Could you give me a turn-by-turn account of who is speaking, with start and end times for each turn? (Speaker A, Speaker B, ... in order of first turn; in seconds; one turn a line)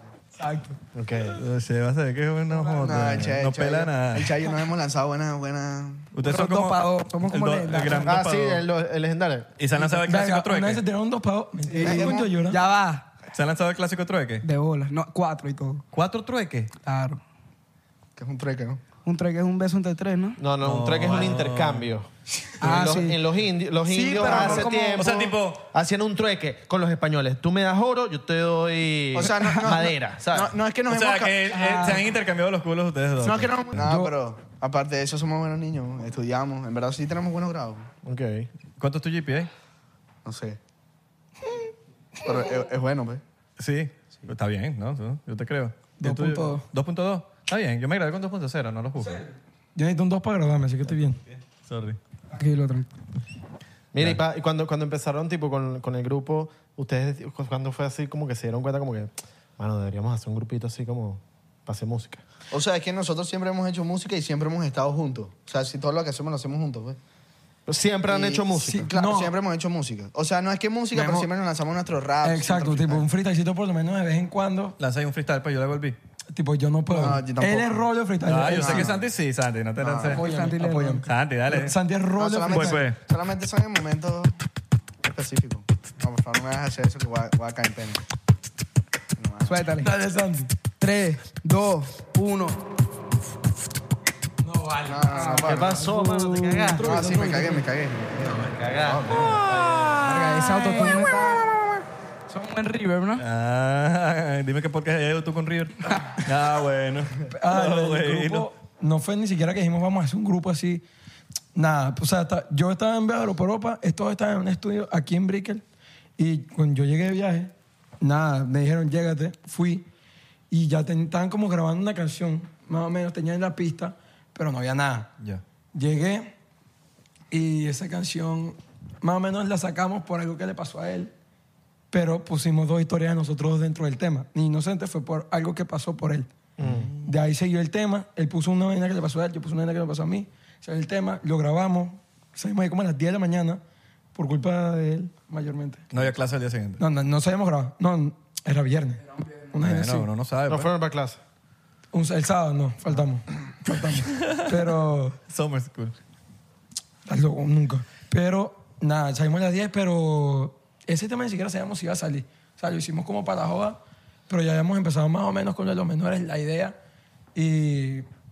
Speaker A: 0.4-0.8
Speaker B: 0.9-1.4
Speaker C: 1.3-4.5
Speaker D: 2.6-6.1
Speaker C: 6.1-8.6
Speaker A: 6.2-8.2
Speaker B: 7.9-9.5
Speaker C: 9.6-10.8
Speaker E: 9.9-12.6
Speaker A: 11.7-13.1
Speaker D: 11.7-12.3
Speaker C: 13.3-14.4
Speaker A: 14.4-15.8
Speaker C: 15.9-16.7
Speaker A: 16.8-17.2
Speaker D: 18.2-18.8
Speaker A: 19.0-20.4
Speaker B: 20.4-30.5
Speaker C: 20.6-21.9
Speaker A: 22.6-23.2
Speaker A: 23.8-25.1
Speaker C: 25.0-25.6
Speaker D: 29.1-31.5
Speaker A: 29.2-29.6
Speaker C: 30.9-33.6
Speaker A: 31.5-32.0
Speaker D: 33.2-37.9
Speaker E: 33.8-34.1
Speaker B: 38.0-38.5
Speaker C: 38.8-39.5
Speaker D: 40.2-40.6
Speaker D: 42.2-43.2
Speaker C: 43.6-49.2
Speaker E: 46.0-46.6
Speaker E: 49.8-51.2
Speaker C: 51.2-52.0
Speaker A: 52.3-52.9
Speaker B: 53.9-62.2
Speaker D: 62.5-67.0
Speaker B: 67.7-68.9
Speaker D: 68.1-73.0
Speaker E: 68.7-69.3
Speaker E: 70.9-71.3
Speaker E: 72.2-74.8
Speaker C: 74.8-76.0
Speaker E: 76.3-78.9
Speaker D: 76.9-77.9
Speaker C: 78.2-80.2
Speaker D: 78.4-79.1
Speaker D: 79.8-80.2
Speaker E: 80.1-82.8
Speaker A: 80.1-81.1
Speaker C: 81.1-81.8
Speaker D: 82.2-84.3
Speaker C: 82.5-83.0
Speaker D: 85.0-88.0
Speaker D: 89.2-89.7
Speaker A: 89.5-89.9
Speaker E: 89.8-90.5
Speaker A: 90.8-92.6
Speaker E: 94.4-95.2
Speaker D: 94.8-95.8
Speaker A: 95.1-97.2
Speaker B: 95.4-97.1
Speaker E: 96.1-97.6
Speaker D: 96.8-99.4
Speaker B: 98.2-99.9
Speaker C: 99.1-101.0
Speaker A: 100.0-101.4
Speaker A: 102.3-103.2
Speaker C: 103.2-108.5
Speaker E: 107.2-110.8
Speaker E: 111.5-115.6
Speaker E: 116.2-119.8
Speaker E: 120.5-125.1
Speaker E: 125.7-126.3
Speaker E: 127.3-131.1
Speaker E: 131.9-136.3
Speaker B: 136.6-136.9
Speaker C: 136.6-137.1
Speaker E: 137.0-143.6
Speaker E: 144.2-145.9
Speaker C: 145.9-146.8
Speaker E: 146.8-150.1
Speaker A: 149.1-149.5
Speaker C: 149.6-150.7
Speaker B: 150.5-151.2
Speaker E: 151.9-155.2
Speaker C: 154.1-154.6
Speaker C: 155.3-155.9
Speaker E: 157.1-163.8
Speaker E: 164.3-166.8
Speaker E: 167.3-168.1